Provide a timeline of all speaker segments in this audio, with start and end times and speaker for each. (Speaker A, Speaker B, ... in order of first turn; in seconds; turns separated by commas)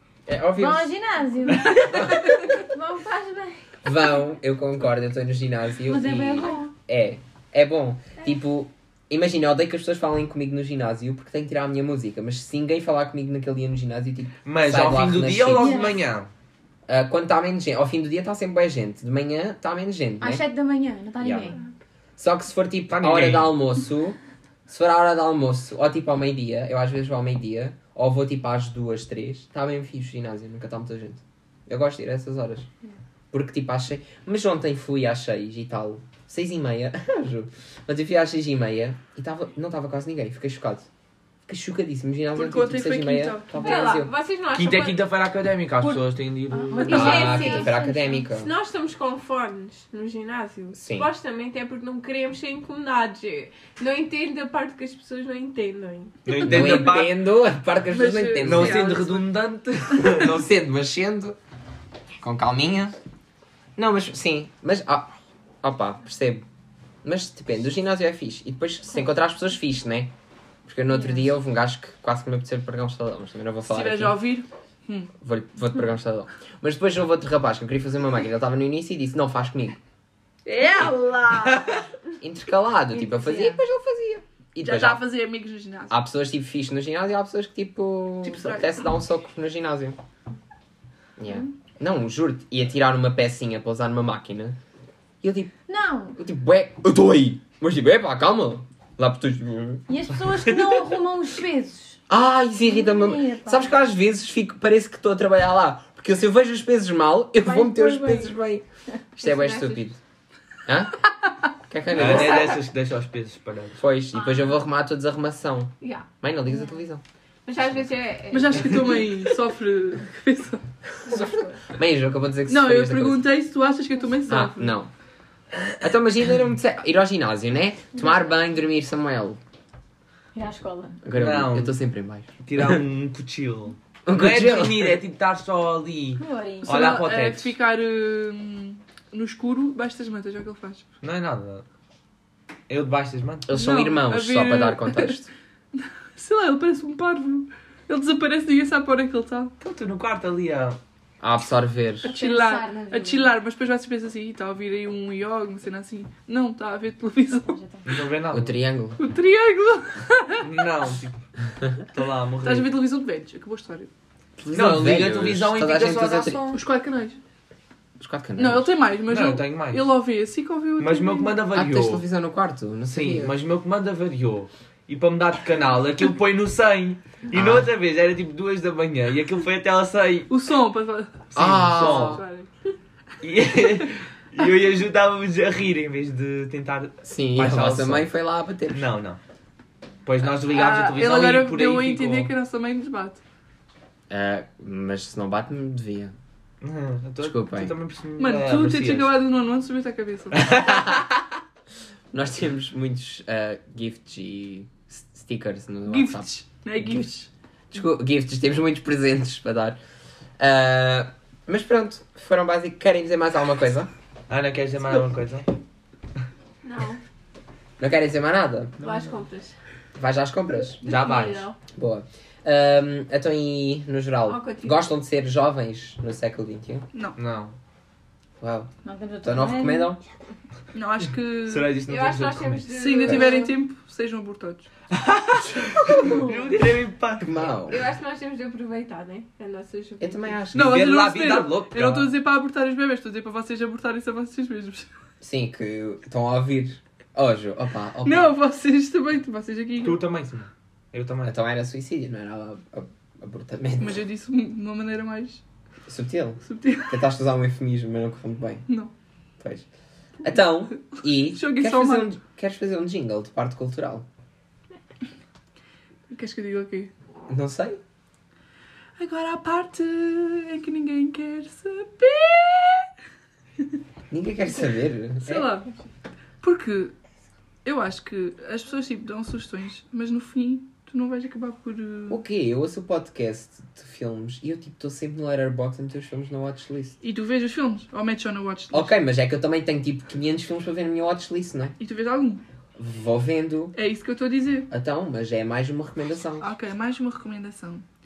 Speaker A: 0.3-0.9, Speaker B: 0.6-3.9, Speaker A: 3.8-15.9, Speaker B: 5.8-6.7, Speaker C: 14.4-16.3, Speaker B: 15.5-16.0, Speaker A: 16.9-20.4, Speaker B: 20.2-21.6, Speaker A: 21.2-21.5, Speaker A: 22.2-32.7, Speaker C: 22.9-23.6, Speaker A: 33.3-40.9, Speaker A: 41.5-44.1, Speaker D: 42.3-44.0, Speaker E: 43.5-45.0, Speaker C: 44.5-46.9, Speaker B: 46.5-48.3, Speaker E: 46.8-47.8, Speaker A: 46.9-48.5, Speaker E: 48.3-56.5, Speaker A: 50.7-51.1, Speaker C: 56.3-57.1, Speaker A: 56.4-59.0, Speaker D: 57.9-59.3, Speaker C: 58.4-60.4, Speaker D: 60.0-60.2, Speaker A: 60.1-61.4, Speaker A: 62.2-63.0, Speaker A: 63.8-66.4, Speaker A: 67.0-70.1, Speaker A: 70.7-74.2, Speaker B: 70.9-71.3, Speaker D: 73.7-75.1, Speaker A: 75.2-79.8, Speaker D: 80.5-81.8, Speaker A: 82.2-85.0, Speaker B: 83.0-83.6, Speaker D: 84.6-85.9, Speaker A: 85.9-90.0, Speaker D: 88.2-88.9, Speaker A: 91.2-94.6, Speaker A: 95.2-95.6, Speaker B: 95.7-96.2, Speaker A: 96.2-99.8, Speaker B: 99.9-102.0, Speaker A: 102.1-108.6, Speaker B: 102.6-103.8, Speaker E: 107.4-108.3, Speaker E: 109.2-109.9, Speaker A: 109.2-110.0, Speaker A: 110.7-112.6, Speaker C: 111.9-113.8, Speaker A: 113.8-117.0, Speaker B: 114.1-114.5, Speaker E: 115.8-116.1, Speaker E: 117.4-119.1, Speaker D: 118.3-121.2, Speaker E: 121.1-121.5, Speaker A: 121.7-123.2, Speaker D: 122.5-124.8, Speaker A: 124.3-124.9, Speaker A: 125.8-129.4, Speaker B: 130.3-131.0, Speaker A: 131.1-132.8, Speaker C: 131.1-131.8, Speaker C: 132.4-137.5, Speaker A: 134.1-135.0, Speaker B: 136.2-136.8, Speaker D: 136.6-140.9, Speaker C: 141.0-141.6, Speaker C: 142.7-143.5, Speaker A: 143.4-145.3, Speaker D: 143.5-145.2, Speaker D: 145.7-149.5, Speaker C: 149.6-150.8, Speaker A: 151.2-152.1, Speaker D: 152.0-157.6, Speaker B: 152.0-153.3, Speaker B: 157.4-157.9, Speaker C: 157.8-158.6, Speaker A: 158.3-159.0, Speaker D: 159.0-160.4, Speaker C: 160.4-161.3, Speaker C: 161.8-162.8, Speaker D: 162.4-163.9, Speaker A: 164.4-166.4, Speaker C: 164.5-166.6, Speaker D: 166.5-167.2, Speaker A: 168.0-168.7, Speaker D: 168.4-171.3, Speaker C: 169.1-169.9, Speaker C: 170.8-172.0, Speaker A: 171.5-173.3, Speaker C: 172.9-180.3, Speaker A: 177.3-177.7, Speaker D: 180.3-181.3, Speaker C: 181.3-182.2, Speaker A: 181.3-182.2, Speaker D: 181.8-182.4, Speaker C: 183.2-188.1, Speaker A: 187.0-188.9, Speaker C: 188.7-189.2, Speaker C: 190.1-192.3, Speaker D: 190.4-193.2, Speaker A: 194.1-196.1, Speaker C: 196.6-199.1, Speaker A: 197.2-197.7, Speaker D: 198.2-200.6, Speaker A: 200.5-201.1, Speaker A: 202.1-206.3, Speaker D: 205.9-207.3, Speaker A: 206.8-207.1, Speaker A: 207.7-209.8, Speaker A: 210.4-213.9, Speaker C: 214.3-215.5, Speaker E: 216.6-217.0, Speaker A: 217.8-218.7, Speaker E: 218.8-219.6, Speaker C: 218.8-219.1, Speaker A: 219.9-226.9, Speaker E: 220.8-221.6, Speaker E: 224.3-224.8, Speaker D: 226.9-227.2, Speaker C: 227.2-227.5, Speaker A: 228.4-230.0, Speaker B: 228.8-229.9, Speaker D: 230.7-231.7, Speaker C: 231.5-233.2, Speaker E: 231.9-233.6, Speaker D: 232.7-234.7, Speaker C: 234.9-237.5, Speaker E: 235.9-236.5, Speaker A: 237.2-237.8, Speaker E: 237.7-240.4, Speaker A: 240.0-240.9, Speaker C: 240.5-242.1, Speaker D: 240.5-244.9, Speaker A: 245.2-248.3, Speaker D: 248.1-250.0, Speaker C: 249.8-251.4, Speaker A: 251.3-254.0, Speaker D: 253.8-255.4, Speaker A: 255.9-258.6, Speaker D: 256.4-257.0, Speaker A: 259.4-259.6, Speaker A: 260.2-264.1, Speaker D: 261.3-262.1, Speaker D: 266.1-266.9, Speaker A: 267.3-267.8, Speaker D: 269.0-272.9, Speaker A: 274.1-275.5, Speaker D: 275.2-275.7, Speaker D: 276.4-276.9, Speaker D: 277.6-282.2, Speaker A: 282.1-287.0, Speaker D: 287.0-288.9, Speaker A: 288.7-291.8, Speaker D: 291.8-292.4, Speaker A: 292.8-293.8, Speaker D: 293.7-294.7, Speaker A: 294.7-296.5, Speaker D: 296.4-297.9